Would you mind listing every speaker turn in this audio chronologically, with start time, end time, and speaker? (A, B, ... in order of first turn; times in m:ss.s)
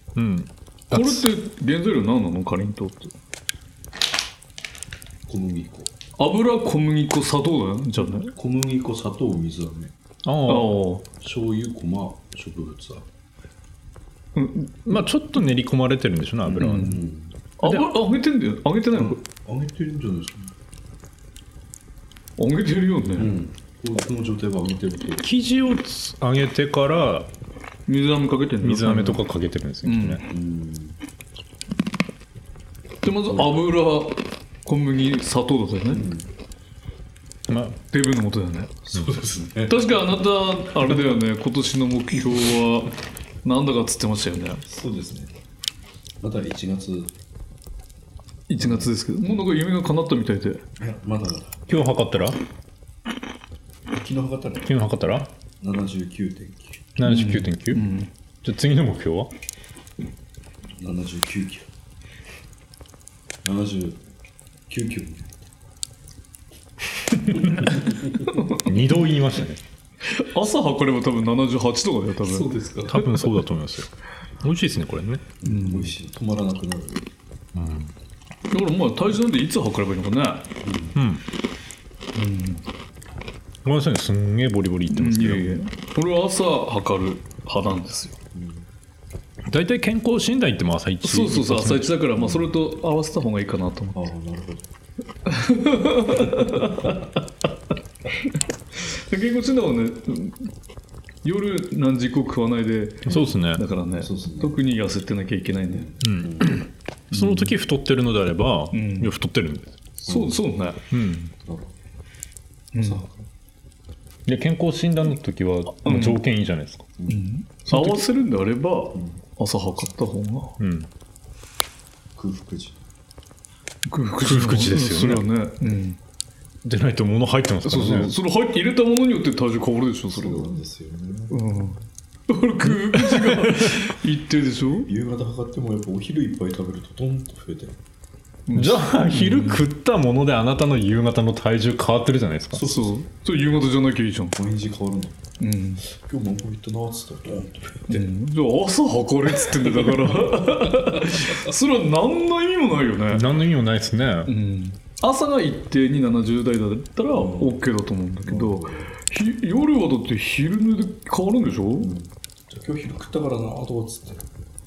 0:00.2-0:01.2 A
0:00.9-0:03.1 B
0:05.3-0:05.9 C
0:06.2-0:08.3 B
0:08.3-0:09.9 C
0:10.2-0:10.8 A
0:10.4-0:11.0 B
0:11.2-0:13.0 C
0:14.3-0:15.0 B
0:14.9-0:17.0 A
0:16.5-0:17.3 C
0:16.6-0:17.0 B
0:17.6-0:19.2 B
0:17.6-0:17.9 A
0:18.9-0:20.5 C
0:22.4-0:23.3 B
0:23.2-0:25.2 C
0:25.2-0:27.3 A
0:27.9-0:29.2 B
0:28.6-0:30.2 A
0:29.8-0:30.2 B
0:30.3-0:31.0 C
0:33.0-0:36.0 B
0:35.9-0:36.3 C
0:37.5-0:37.8 A
0:37.9-0:38.8 B
0:38.9-0:39.9 C
0:38.9-0:39.2 A
0:39.6-0:42.9 B
0:43.4-0:44.6 B
0:44.6-0:45.3 C
0:46.2-0:47.1 C
0:48.5-0:50.6 B
0:48.6-0:49.4 C
0:50.8-0:51.6 C
0:51.7-0:52.4 A
0:53.9-0:54.7 C
0:54.6-0:55.3 A
0:55.6-0:56.8 C
0:57.0-0:57.9 A
0:57.0-0:58.1 B
0:58.4-0:59.3 A
1:00.8-1:01.7 C
1:03.4-1:04.0 C
1:04.7-1:05.4 C
1:07.3-1:08.3 C
1:08.2-1:08.7 B
1:08.5-1:09.6 A
1:10.0-1:13.4 B
1:12.2-1:13.0 C
1:12.9-1:15.2 A
1:15.4-1:17.0 C
1:15.4-1:15.9 B
1:17.5-1:17.9 A
1:18.5-1:20.5 B
1:20.6-1:21.0 C
1:21.0-1:21.2 A
1:22.1-1:22.6 B
1:23.6-1:25.6 A
1:24.9-1:28.2 B
1:28.3-1:28.6 C
1:29.5-1:31.9 A
1:31.0-1:34.0 B
1:32.1-1:32.5 C
1:33.9-1:34.7 C
1:35.2-1:37.1 B
1:36.2-1:36.8 C
1:38.9-1:40.5 B
1:41.2-1:45.9 B
1:43.1-1:43.6 A
1:44.0-1:44.6 C
1:45.7-1:46.6 C
1:46.0-1:49.7 A
1:47.1-1:47.5 B
1:48.7-1:49.1 B
1:50.0-1:50.8 B
1:50.1-1:50.4 C
1:50.9-1:51.3 A
1:51.4-1:51.7 C
1:52.7-1:53.0 B
1:52.8-1:53.2 C
1:54.2-1:56.9 A
1:55.8-1:56.2 B
1:57.0-1:57.2 C
1:57.1-2:00.6 B
1:57.7-1:58.0 A
1:58.9-1:59.2 C
2:00.6-2:00.9 A
2:02.2-2:02.8 C
2:03.8-2:06.0 B
2:04.2-2:05.2 A
2:06.6-2:08.2 A
2:07.6-2:10.5 B
2:10.1-2:11.4 C
2:11.3-2:11.8 B
2:12.3-2:14.9 B
2:12.8-2:13.5 A
2:14.8-2:17.8 C
2:18.5-2:19.6 B
2:18.5-2:22.7 A
2:22.5-2:23.0 C
2:22.6-2:24.4 B
2:24.4-2:25.2 C
2:25.4-2:25.8 B
2:25.8-2:28.0 C
2:27.9-2:33.3 B
2:29.8-2:30.1 C
2:33.1-2:34.3 A
2:34.3-2:41.9 B
2:37.1-2:37.6 C
2:38.2-2:38.9 C
2:41.8-2:44.2 C